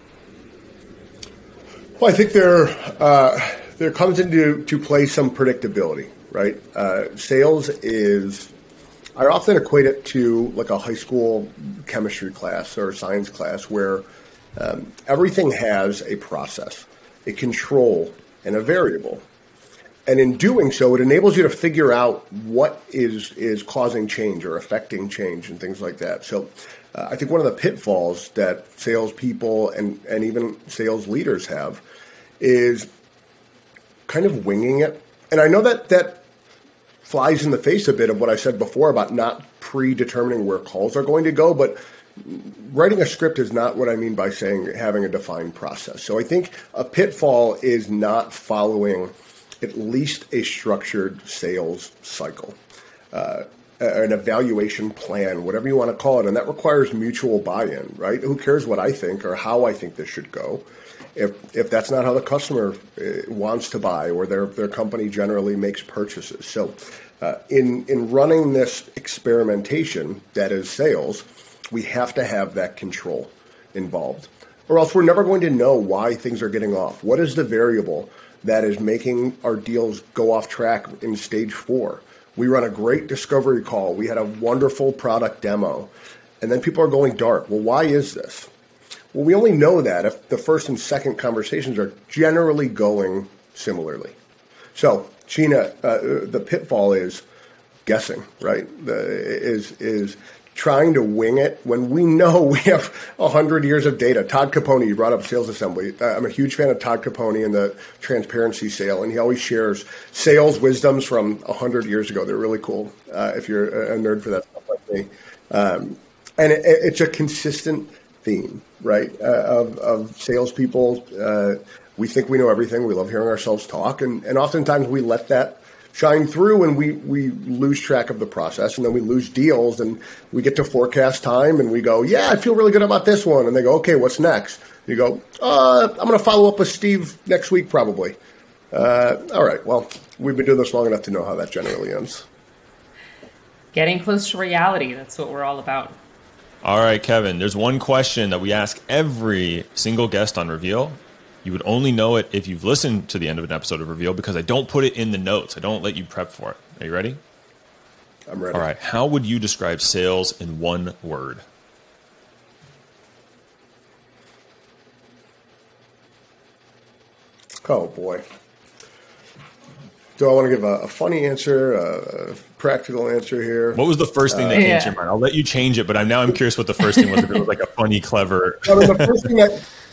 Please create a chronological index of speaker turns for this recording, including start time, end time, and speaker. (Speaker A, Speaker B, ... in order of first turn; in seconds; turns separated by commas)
Speaker A: 2.0-8.5, Speaker A: 9.2-14.1, Speaker A: 14.6-19.2, Speaker A: 20.1-31.8, Speaker A: 32.4-32.9, Speaker A: 34.1-36.2, Speaker A: 37.0-52.6, Speaker A: 53.1-85.9, Speaker A: 86.4-88.5, Speaker A: 89.1-94.2, Speaker A: 94.8-97.2, Speaker A: 97.8-138.2, Speaker A: 138.7-142.3, Speaker B: 143.7-146.0, Speaker C: 146.6-157.2, Speaker A: 158.3-158.7, Speaker C: 158.5-161.4, Speaker A: 167.7-168.2, Speaker A: 170.2-174.7, Speaker C: 173.7-179.1, Speaker B: 174.5-175.0, Speaker A: 178.7-179.6